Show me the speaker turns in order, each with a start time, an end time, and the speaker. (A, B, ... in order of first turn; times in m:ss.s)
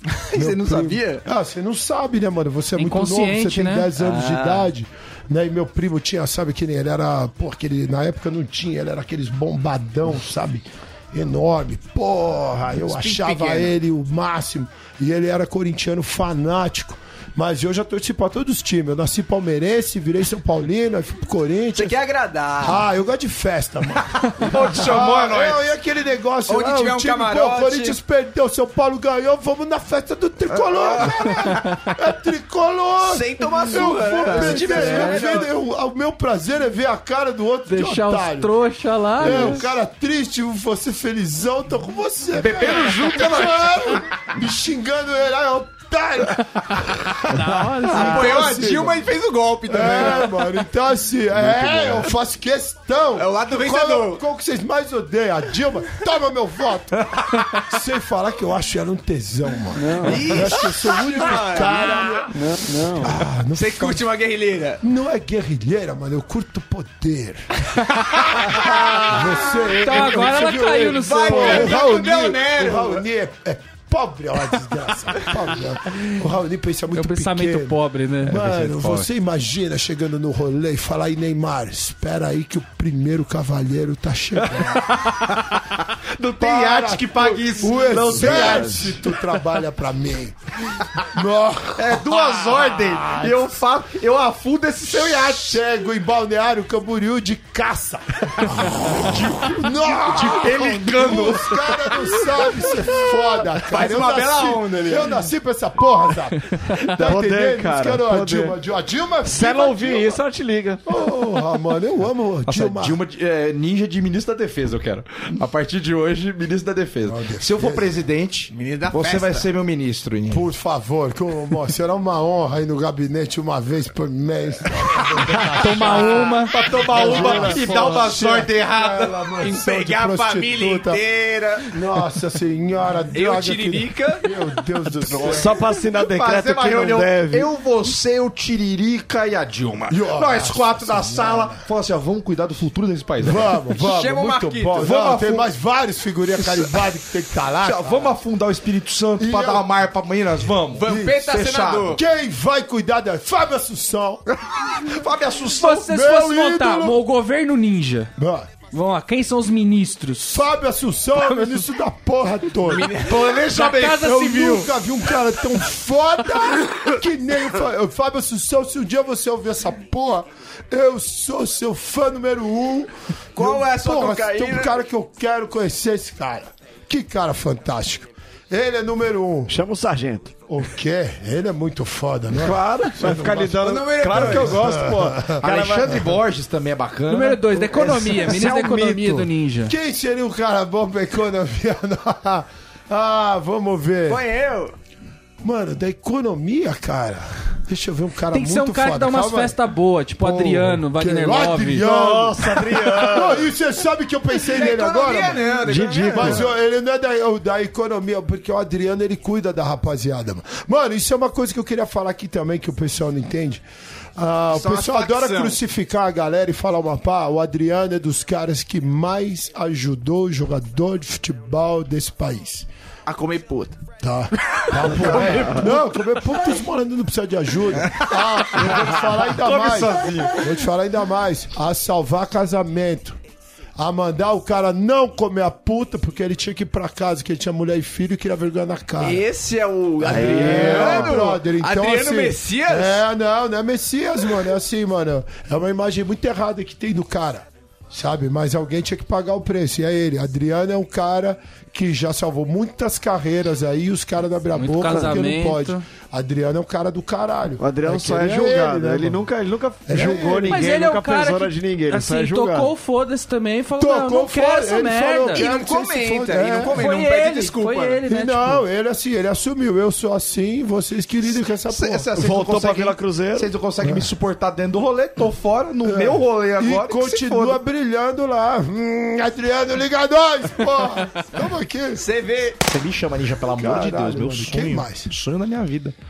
0:00.1-0:01.2 A
0:00.3-0:22.0 B
0:02.8-0:03.9 C
0:04.2-0:04.5 A
0:12.9-0:13.7 A
0:21.7-0:22.8 A
0:22.6-0:38.5 B
0:24.2-0:25.1 A
0:24.4-0:25.6 D
0:26.5-0:28.0 A
0:30.5-0:31.7 A
0:33.0-0:35.5 A
0:34.3-0:35.4 C
0:37.7-0:39.7 C
0:39.2-0:49.1 B
0:42.3-0:44.0 D
0:47.3-0:48.5 C
0:47.9-0:50.4 A
0:49.6-1:04.1 B
0:51.5-0:52.0 E
0:53.2-0:54.2 A
0:59.8-1:00.3 E
1:00.0-1:02.3 A
1:02.3-1:03.1 E
1:03.5-1:04.8 A
1:04.8-1:25.0 B
1:08.3-1:09.7 A
1:09.7-1:11.8 C
1:11.0-1:13.0 A
1:16.9-1:19.0 C
1:24.4-1:29.0 D
1:26.4-1:30.4 B
1:27.9-1:28.9 E
1:31.0-1:33.3 B
1:31.8-1:35.6 D
1:34.8-1:50.2 B
1:38.4-1:42.9 D
1:43.7-1:45.1 D
1:46.9-1:48.6 E
1:49.2-1:50.8 E
1:50.8-1:53.0 B
1:52.5-2:00.4 D
1:57.0-1:57.9 B
1:58.5-1:59.5 A
2:00.3-2:11.0 B
2:05.6-2:06.5 C
2:05.8-2:09.4 D
2:06.9-2:08.0 E
2:09.4-2:11.7 A
2:11.7-2:15.6 B
2:13.1-2:14.3 A
2:15.1-2:17.5 E
2:15.2-2:23.6 D
2:19.9-2:21.6 B
2:23.2-2:28.1 B
2:23.8-2:24.9 A
2:24.8-2:25.5 D
2:26.4-2:26.8 D
2:27.6-2:32.0 D
2:29.2-2:29.7 B
2:30.8-2:32.0 A
2:30.8-2:34.2 B
2:34.6-2:35.9 D
2:35.6-2:38.1 C
2:35.8-2:37.0 B
2:38.2-2:38.5 B
2:38.7-2:40.5 C
2:40.3-2:43.0 B
2:41.2-2:41.6 C
2:42.7-2:44.2 D
2:42.7-2:43.4 A
2:43.3-2:44.7 C
2:43.8-2:59.6 B
2:53.4-2:54.8 A
2:59.5-3:00.3 E
3:00.5-3:05.4 B
3:02.3-3:06.2 E
3:03.6-3:04.6 A
3:05.4-3:08.3 D
3:07.1-3:09.7 C
3:07.7-3:09.3 E
3:09.6-3:14.2 B
3:14.1-3:14.7 A
3:15.4-3:19.6 B
3:18.3-3:21.9 C
3:20.2-3:33.6 B
3:21.7-3:23.5 E
3:24.4-3:26.4 A
3:25.5-3:26.5 E
3:34.2-3:42.7 B
3:34.5-3:35.6 A
3:43.0-3:43.8 A
3:44.0-3:53.2 B
3:44.8-3:45.7 D
3:45.3-3:45.6 E
3:48.7-3:50.3 E
3:49.4-3:50.3 D
3:53.8-3:59.2 B
3:59.0-4:03.0 A
4:00.0-4:19.2 B
4:00.0-4:01.2 E
4:14.5-4:15.8 C
4:14.9-4:15.1 E
4:17.6-4:22.7 E
4:19.8-4:20.7 B
4:20.5-4:25.4 C
4:23.8-4:26.8 B
4:25.3-4:28.0 A
4:26.7-4:28.6 C
4:28.1-4:32.1 B
4:31.7-4:37.6 D
4:32.2-4:33.5 E
4:33.8-4:34.1 B
4:35.8-4:42.0 B
4:42.0-4:42.6 A
4:42.6-4:45.9 D
4:43.6-4:45.1 B